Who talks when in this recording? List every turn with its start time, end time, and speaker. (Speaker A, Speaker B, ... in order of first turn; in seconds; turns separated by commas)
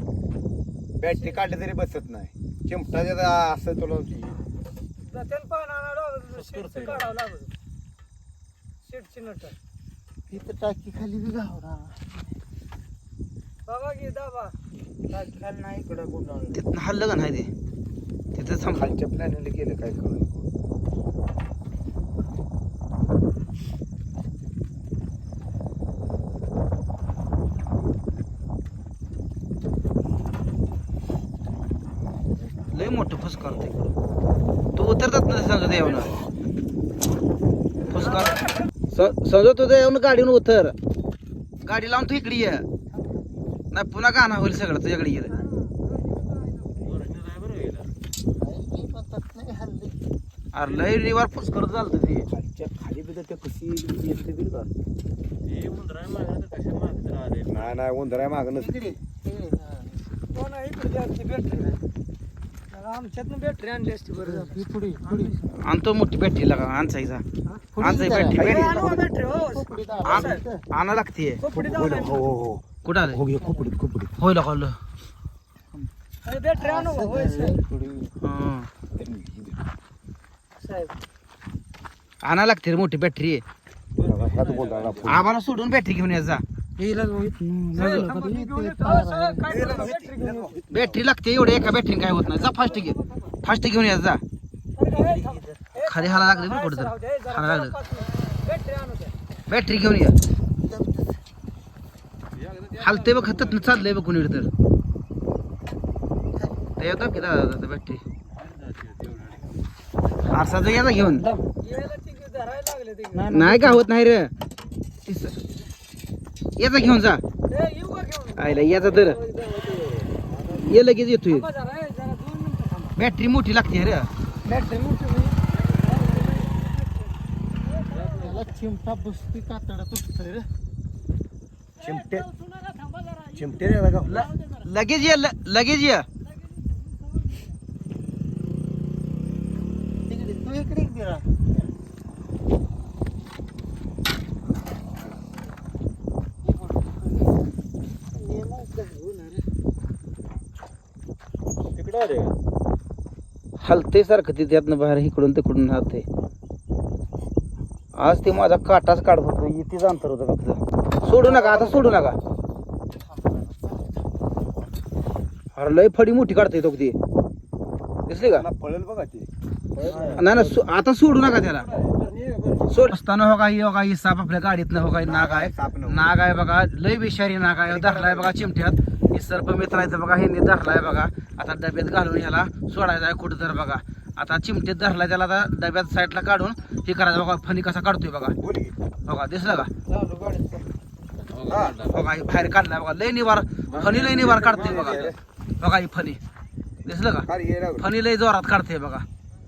Speaker A: 1.0-4.4, Speaker B: 5.0-7.5, Speaker C: 6.3-7.1, Speaker B: 8.8-9.5, Speaker D: 10.3-12.2, Speaker B: 13.7-14.5, Speaker D: 15.1-16.5, Speaker E: 16.5-17.5, Speaker E: 18.3-18.9, Speaker A: 18.7-20.5, Speaker E: 32.7-33.9, Speaker E: 34.8-36.1, Speaker E: 37.9-40.7, Speaker E: 41.6-42.6, Speaker E: 43.7-45.4, Speaker C: 46.7-47.9, Speaker D: 48.4-50.0, Speaker E: 50.5-52.3, Speaker A: 52.3-54.7, Speaker C: 55.4-57.7, Speaker A: 57.5-59.0, Speaker D: 58.8-59.9, Speaker B: 60.3-61.8, Speaker B: 62.7-64.7, Speaker D: 64.4-65.4, Speaker E: 65.4-67.2, Speaker D: 67.8-68.3, Speaker E: 67.8-68.8, Speaker A: 68.2-69.0, Speaker B: 68.3-70.4, Speaker D: 69.5-70.5, Speaker E: 70.0-71.4, Speaker B: 71.4-72.2, Speaker A: 71.5-74.1, Speaker E: 72.8-73.2, Speaker E: 74.2-74.8, Speaker B: 76.2-77.6, Speaker D: 76.7-78.1, Speaker E: 78.2-78.7, Speaker A: 78.9-79.6, Speaker B: 80.6-80.9, Speaker E: 82.2-83.4, Speaker C: 84.0-85.1, Speaker A: 84.0-85.3, Speaker E: 85.0-86.4, Speaker D: 86.8-89.7, Speaker E: 87.7-88.1, Speaker B: 87.7-90.6, Speaker A: 89.5-91.0, Speaker E: 90.7-94.2, Speaker B: 92.5-93.1, Speaker B: 94.8-99.1, Speaker E: 95.7-97.8, Speaker E: 99.5-100.1, Speaker D: 100.7-101.1, Speaker C: 102.3-103.6, Speaker E: 102.8-104.5, Speaker E: 106.8-108.0, Speaker C: 108.3-109.5, Speaker E: 110.3-111.3, Speaker B: 111.6-113.6, Speaker E: 113.3-114.3, Speaker E: 115.0-115.4, Speaker E: 116.6-117.2, Speaker B: 117.5-120.0, Speaker E: 118.4-119.2, Speaker C: 120.0-120.3, Speaker E: 120.6-121.5, Speaker B: 121.3-123.0, Speaker E: 123.0-124.1, Speaker B: 125.8-127.1, Speaker B: 127.7-128.4, Speaker C: 128.0-128.5, Speaker D: 128.2-130.5, Speaker A: 131.8-132.3, Speaker A: 133.3-134.3, Speaker E: 134.0-136.1, Speaker D: 140.1-141.3, Speaker D: 146.4-147.3, Speaker D: 148.2-149.4, Speaker C: 151.7-152.4, Speaker E: 153.6-156.1, Speaker E: 157.9-162.2, Speaker A: 161.1-161.9, Speaker E: 165.5-167.0, Speaker E: 168.1-168.4, Speaker A: 168.3-170.3, Speaker E: 170.2-171.7, Speaker C: 171.7-172.7, Speaker E: 172.7-188.4, Speaker A: 175.0-176.1, Speaker A: 177.7-178.4, Speaker A: 188.4-188.8, Speaker E: 189.1-189.7, Speaker C: 191.2-192.0, Speaker A: 191.5-191.8, Speaker E: 191.8-195.1, Speaker A: 193.7-195.2, Speaker C: 193.8-194.5, Speaker E: 195.6-196.2, Speaker E: 196.8-199.1, Speaker A: 197.2-197.8